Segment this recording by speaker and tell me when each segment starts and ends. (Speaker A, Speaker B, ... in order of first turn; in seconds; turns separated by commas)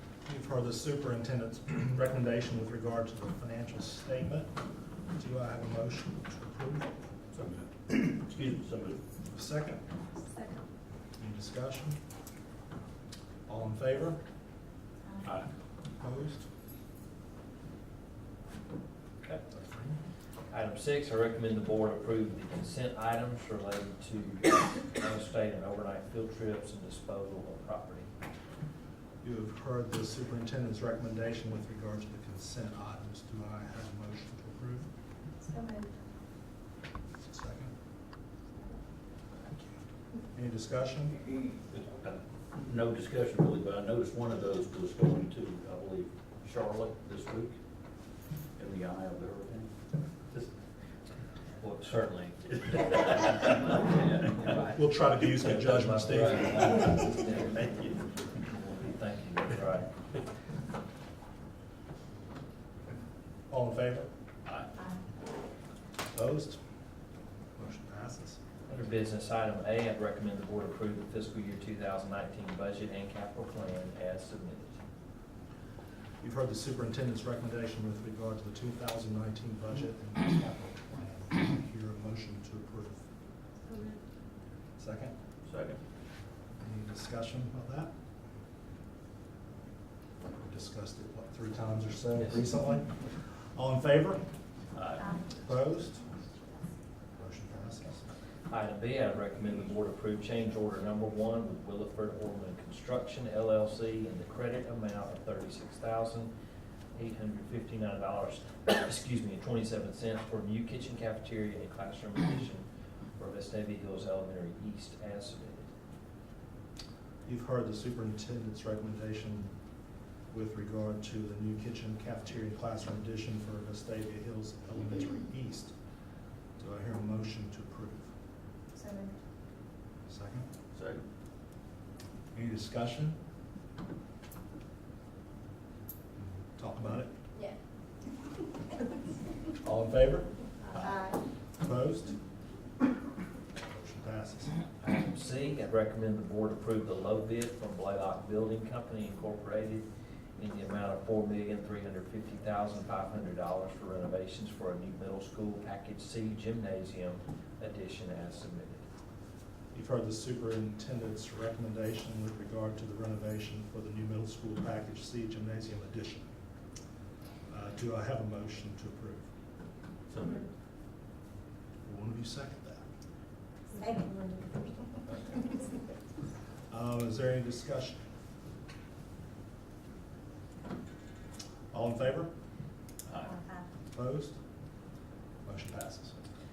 Speaker A: 0.3-4.5, Speaker A: 5.1-6.9, Speaker B: 7.3-9.0, Speaker A: 9.3-9.8, Speaker C: 10.2-10.6, Speaker A: 11.2-12.0, Speaker A: 13.5-14.2, Speaker A: 16.0-16.5, Speaker A: 19.5-20.0, Speaker D: 20.5-28.1, Speaker A: 29.2-34.9, Speaker C: 35.4-35.9, Speaker A: 37.2-37.7, Speaker A: 39.4-39.7, Speaker A: 40.3-41.3, Speaker B: 41.7-47.6, Speaker B: 48.6-50.5, Speaker D: 51.6-54.8, Speaker B: 52.7-54.3, Speaker A: 54.6-57.1, Speaker D: 55.4-59.9, Speaker A: 63.5-64.1, Speaker B: 64.5-64.7, Speaker A: 66.1-66.6, Speaker A: 67.6-68.4, Speaker D: 68.7-74.8, Speaker A: 76.2-83.1, Speaker C: 83.7-84.0, Speaker A: 84.8-85.2, Speaker B: 85.5-85.8, Speaker A: 86.6-87.9, Speaker A: 90.2-94.2, Speaker B: 94.7-95.3, Speaker A: 95.3-96.0, Speaker A: 97.2-98.1, Speaker D: 98.5-106.3, Speaker D: 106.9-115.7, Speaker A: 117.3-119.5, Speaker A: 120.3-125.8, Speaker A: 126.6-128.1, Speaker C: 128.8-129.2, Speaker A: 130.1-130.5, Speaker B: 130.7-131.0, Speaker A: 132.3-133.2, Speaker A: 136.2-137.1, Speaker A: 139.6-140.8, Speaker C: 140.7-141.2, Speaker A: 141.4-142.2, Speaker A: 143.6-144.6, Speaker D: 144.8-158.9, Speaker A: 159.7-166.3, Speaker A: 167.5-169.3, Speaker B: 170.1-170.4, Speaker A: 171.8-172.8, Speaker C: 173.8-174.7, Speaker A: 175.1-175.4, Speaker A: 176.7-178.0, Speaker A: 181.7-182.3, Speaker B: 183.1-183.4, Speaker C: 183.2-183.7, Speaker A: 183.9-184.4, Speaker A: 185.4-186.2